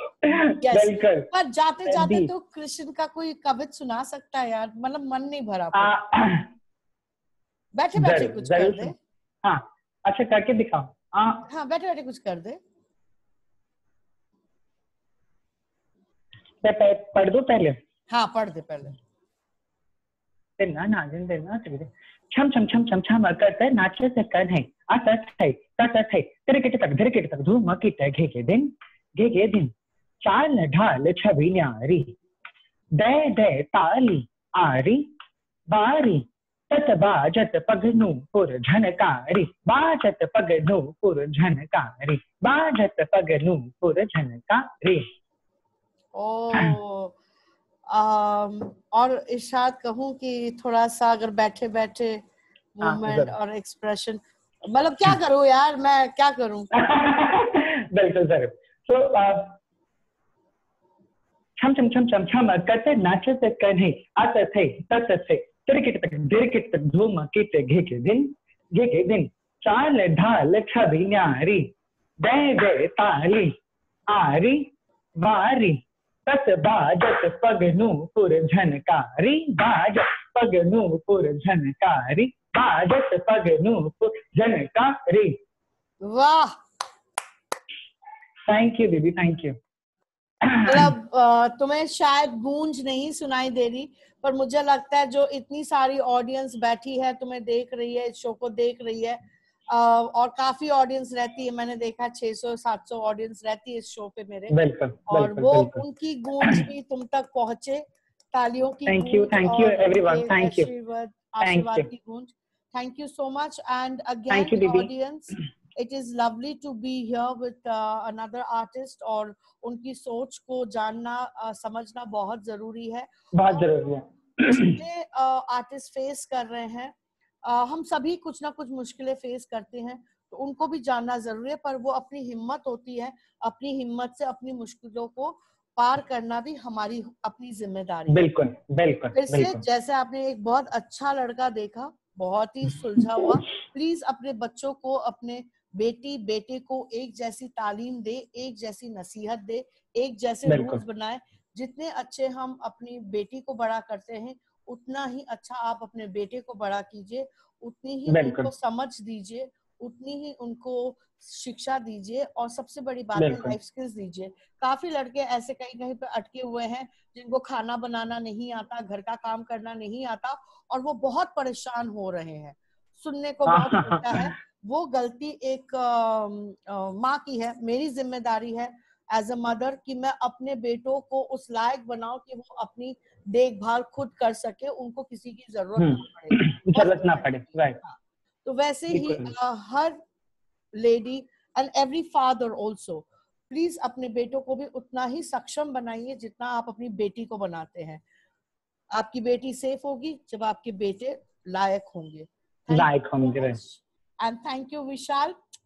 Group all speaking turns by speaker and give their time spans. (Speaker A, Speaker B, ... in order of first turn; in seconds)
Speaker A: 0.2-1.3, 1.9-2.3, 5.7-6.5, 8.0-11.4, 16.6-17.8, 20.6-32.1, 33.0-35.1, 35.7-45.1, 52.8-53.3, 56.7-59.6, 61.6-73.6, 74.1-85.4, 88.5-89.6, 90.4-90.9, 104.5-105.8, 108.9-110.7, 111.4-111.9, 114.3-114.9, 123.3-124.8, 138.1-139.6, 150.5-150.8, 158.1-158.5, 163.2-163.6, 173.5-174.3, 185.8-187.8, 188.9-189.3, 202.7-203.6
Speaker B: 0.6-5.9, 7.8-8.9, 11.5-12.6, 18.1-19.0, 46.1-47.2, 47.9-52.2, 52.8-56.7, 86.0-86.6, 90.6-99.2, 99.7-104.6, 105.1-123.7, 124.4-126.9, 127.5-138.3, 139.1-190.0, 190.8-198.0, 198.9-205.4